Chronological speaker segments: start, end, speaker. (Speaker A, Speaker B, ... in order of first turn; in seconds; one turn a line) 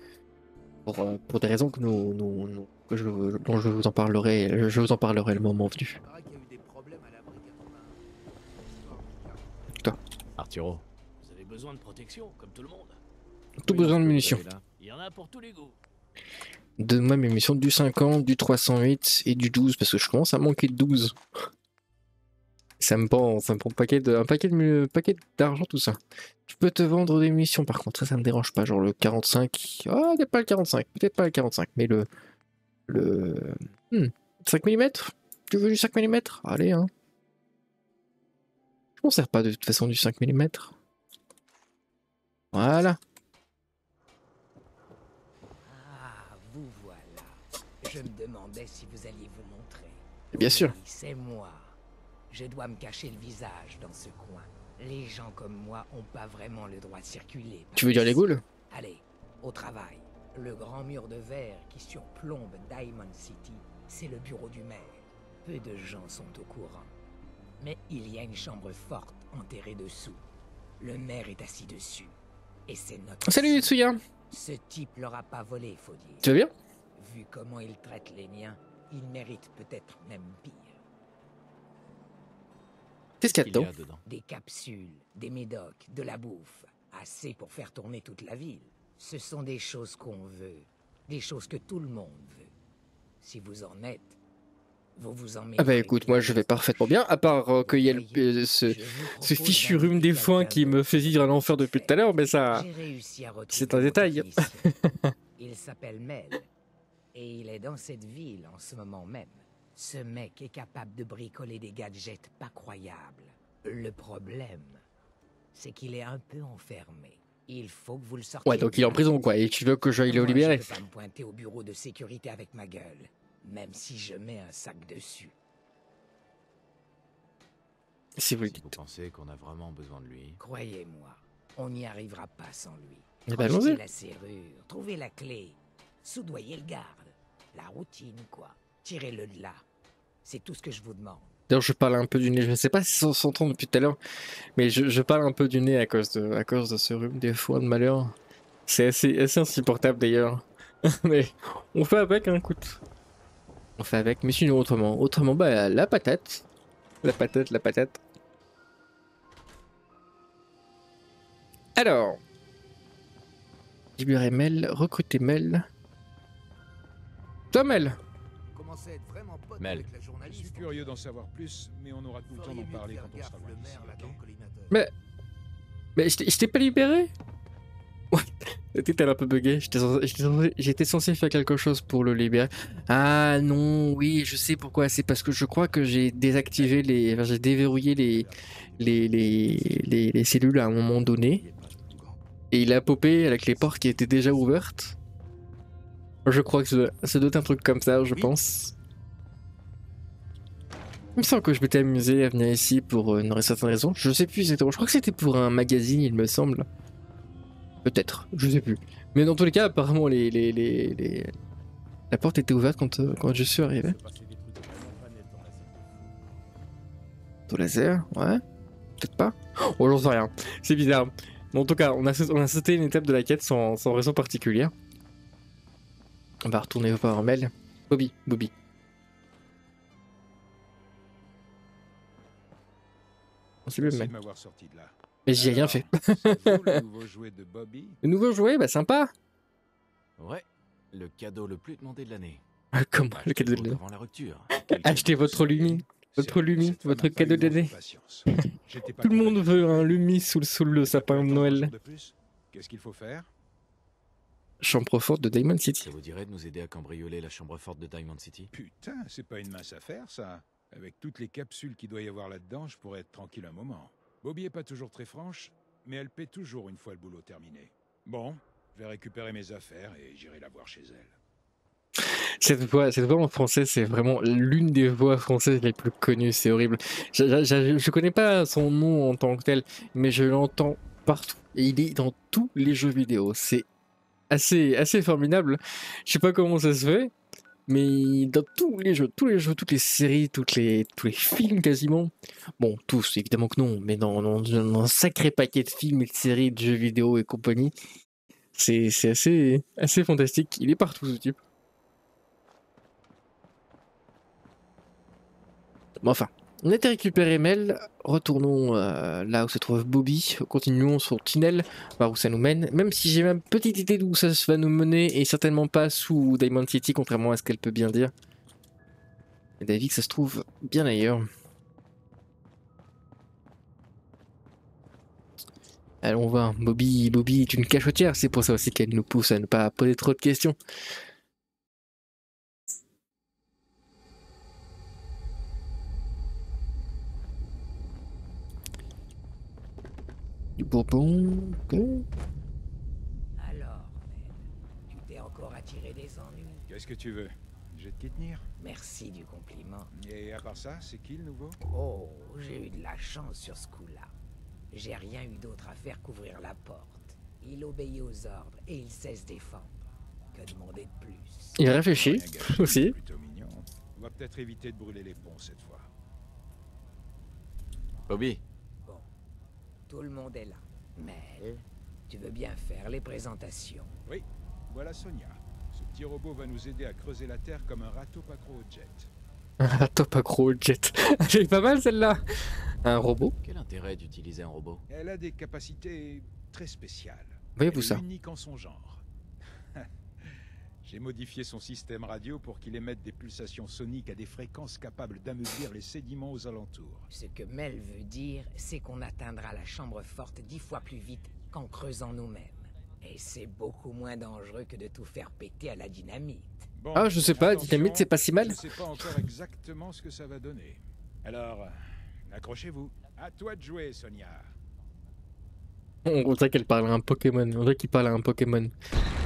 Speaker A: 0.9-6.0
Speaker B: 6.0-9.9
Speaker C: 10.4-10.8
Speaker D: 11.2-13.0
Speaker A: 13.6-14.4
Speaker C: 13.7-14.6
Speaker D: 13.7-15.8
Speaker A: 16.8-21.1
Speaker A: 22.8-32.1
Speaker A: 32.9-36.9
Speaker A: 39.0-40.7
Speaker A: 42.5-43.0
Speaker E: 45.6-51.8
Speaker A: 50.3-50.7
Speaker E: 52.3-66.9
Speaker A: 57.8-58.4
Speaker E: 67.6-70.2
Speaker E: 70.8-72.2
Speaker E: 72.7-73.8
Speaker A: 73.3-74.0
Speaker E: 74.3-76.3
Speaker A: 76.2-76.5
Speaker E: 77.0-80.8
Speaker A: 83.2-83.7
Speaker C: 83.2-84.0
Speaker E: 84.1-92.5
Speaker E: 93.2-94.2
Speaker E: 95.0-102.0
Speaker A: 95.6-102.7
Speaker E: 102.5-104.7
Speaker A: 103.5-105.1
Speaker E: 105.4-106.5
Speaker E: 107.1-114.8
Speaker E: 115.5-119.4
Speaker A: 118.5-120.7
Speaker E: 120.1-125.3
Speaker A: 128.2-128.8
Speaker C: 128.4-130.4
Speaker E: 130.4-139.7
Speaker A: 133.3-133.8
Speaker E: 140.2-141.3
Speaker A: 141.5-144.0
Speaker A: 144.6-148.2
Speaker A: 148.7-152.8
Speaker A: 153.8-156.4
Speaker A: 157.0-158.0
Speaker A: 161.8-162.2
Speaker A: 164.0-165.7
Speaker A: 167.5-168.0
Speaker B: 168.5-171.0
Speaker C: 169.6-169.9
Speaker F: 170.2-174.2
Speaker B: 172.2-174.8
Speaker A: 176.0-177.1
Speaker A: 178.1-191.4
Speaker B: 188.1-190.1
Speaker C: 191.3-192.2
Speaker A: 192.5-195.0
Speaker A: 196.2-198.8
Speaker A: 201.2-206.7
Speaker A: 207.8-211.3
Speaker A: 212.1-214.0
Speaker B: 213.0-216.1
Speaker A: 217.5-218.4
Speaker A: 219.0-224.7
Speaker A: 226.4-228.5
Speaker A: 233.7-234.1
Speaker F: 233.8-238.0
Speaker A: 235.3-236.8
Speaker A: 238.0-239.1
Speaker C: 240.2-242.4
Speaker A: 242.7-243.8
Speaker C: 243.1-245.3
Speaker A: 244.6-247.7
Speaker F: 245.1-253.3
Speaker A: 249.0-251.7
Speaker A: 254.6-255.9
Speaker C: 255.8-258.5
Speaker F: 258.5-271.2
Speaker A: 272.0-283.7
Speaker A: 284.3-287.1
Speaker A: 287.7-297.7
Speaker A: 298.6-301.4
Speaker A: 306.0-318.1
Speaker A: 319.6-321.3
Speaker A: 326.0-330.6
Speaker A: 340.6-342.1
Speaker E: 343.4-346.6
Speaker F: 346.7-348.4
Speaker E: 348.6-349.9
Speaker F: 349.9-351.6
Speaker E: 351.7-354.1
Speaker E: 354.7-361.6
Speaker A: 361.6-362.9
Speaker F: 361.6-365.9
Speaker C: 368.1-368.4
Speaker E: 369.9-373.9
Speaker F: 374.1-379.1
Speaker A: 379.6-383.4
Speaker C: 383.4-384.8
Speaker F: 384.9-389.0
Speaker A: 387.6-388.0
Speaker F: 389.8-397.1
Speaker E: 397.1-406.7
Speaker F: 406.8-414.5
Speaker A: 406.9-408.6
Speaker A: 416.1-418.7